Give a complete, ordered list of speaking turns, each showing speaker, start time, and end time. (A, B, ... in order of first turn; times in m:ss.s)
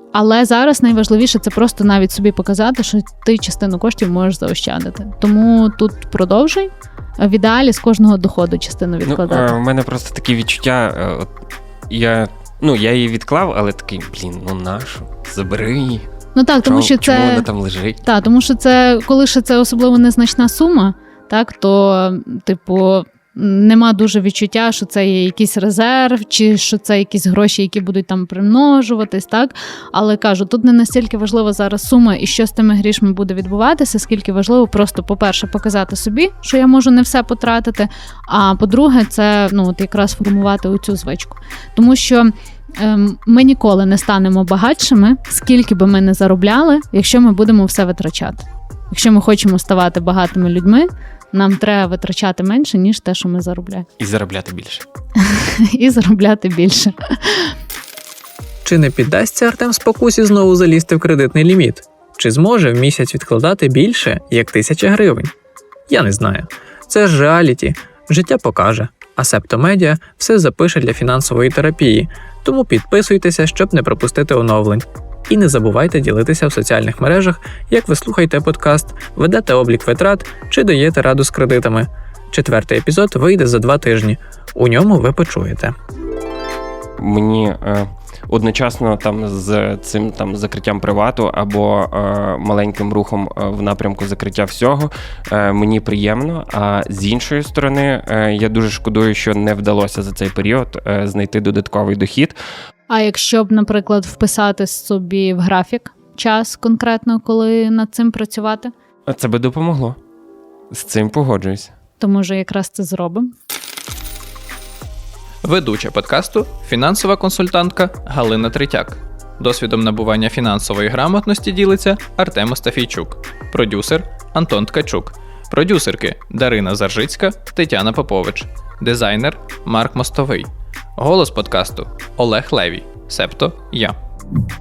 0:00.1-0:09.6 A
0:09.1-0:11.3 B
0:11.9-0:16.1 B
0:16.3-0:17.4 A
0:16.6-0:18.0 B
0:18.0-0:53.9 A
0:54.0-0:54.8 B
0:55.2-0:57.5 A
0:58.6-1:05.3 C
1:05.9-1:25.7 C
1:27.0-1:42.4 B
1:42.9-1:48.7 A
1:49.1-1:50.0 B
1:50.7-1:51.7 B
1:52.0-1:53.3 A
1:55.4-2:10.4 D
1:56.6-1:57.2 C
2:11.0-2:13.9 D